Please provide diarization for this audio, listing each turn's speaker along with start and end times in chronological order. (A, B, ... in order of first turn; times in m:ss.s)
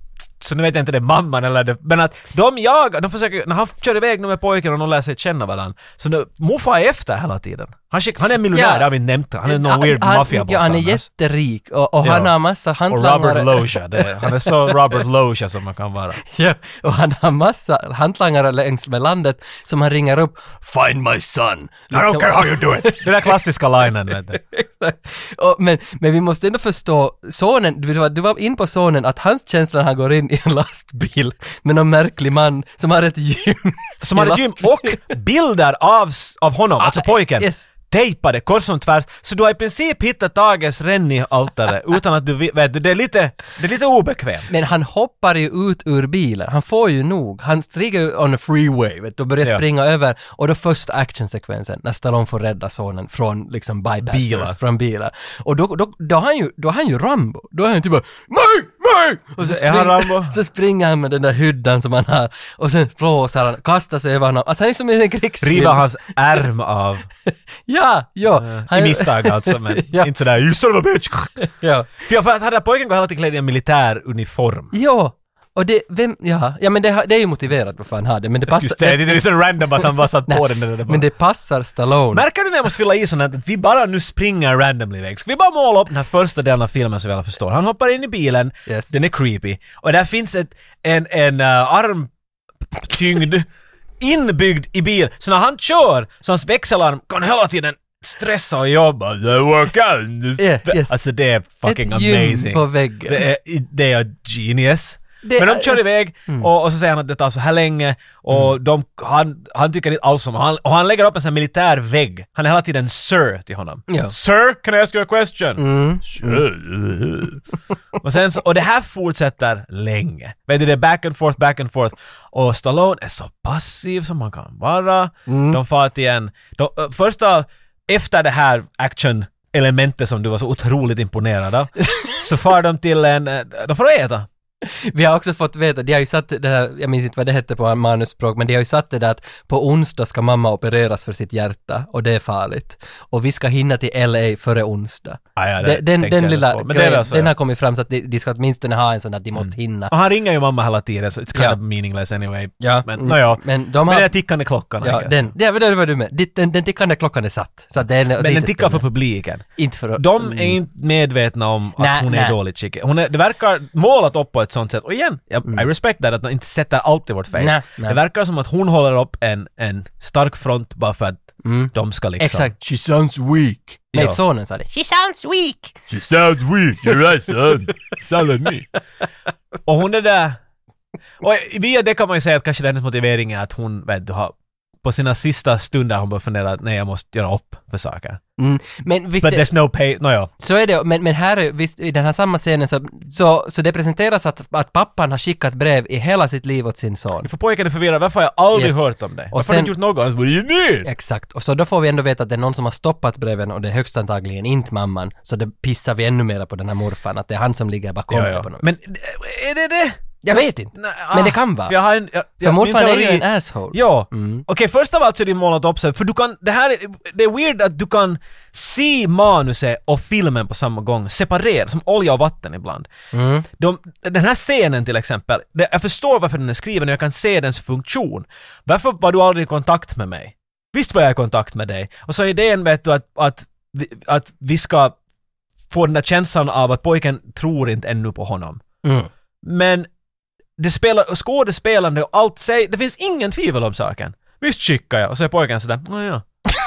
0:00.4-0:11.1 A
0:08.5-0:08.9 B
0:09.4-0:14.7 B
0:12.0-0:12.3 A
0:12.9-0:16.2 A
0:16.3-0:23.4 B
0:21.9-0:24.4 A
0:24.3-0:35.2 B
0:34.0-0:44.5 A
0:36.8-0:37.7 B
0:44.5-1:05.8 B
0:54.0-0:54.6 A
0:59.4-1:00.4 A
1:05.4-1:07.1 A
1:07.7-1:10.1 B
1:08.3-1:11.4 A
1:11.4-1:11.9 B
1:12.0-1:14.7 A
1:14.7-1:22.2 B
1:18.5-1:21.1 A
1:22.1-1:32.1 A
1:28.7-1:28.9 B
1:32.7-1:33.5 A
1:34.0-1:55.6 A
1:40.4-1:41.0 B
1:41.6-1:43.2 B
1:45.2-1:46.5 B
1:53.9-1:54.1 B
1:55.6-1:56.4 B
1:56.2-1:57.4 A
1:58.0-2:14.3 A
2:05.3-2:05.6 B
2:11.8-2:12.2 B
2:14.6-2:29.9 B
2:25.4-2:27.3 A
2:29.4-2:35.3 A
2:32.6-2:34.2 B
2:34.8-2:38.9 B
2:38.2-2:52.5 A
2:39.6-2:40.6 B
2:41.8-2:42.4 B
2:47.4-2:48.0 B
2:51.4-2:55.8 B
2:53.9-2:54.2 A
2:55.9-2:58.6 C
2:59.7-3:00.4 A
3:01.2-3:08.2 A
3:08.4-3:09.5 B
3:09.2-3:10.3 A
3:10.4-3:17.3 B
3:17.2-3:20.9 A
3:18.5-3:18.8 B
3:19.3-3:19.7 B
3:20.8-3:28.7 B
3:28.1-3:42.9 A
3:30.2-3:31.8 B
3:32.4-3:34.4 B
3:43.1-3:43.5 B
3:43.5-3:55.0 A
3:55.7-3:58.6 A
3:58.8-3:59.1 B
3:59.4-3:59.9 A
4:00.6-4:06.2 A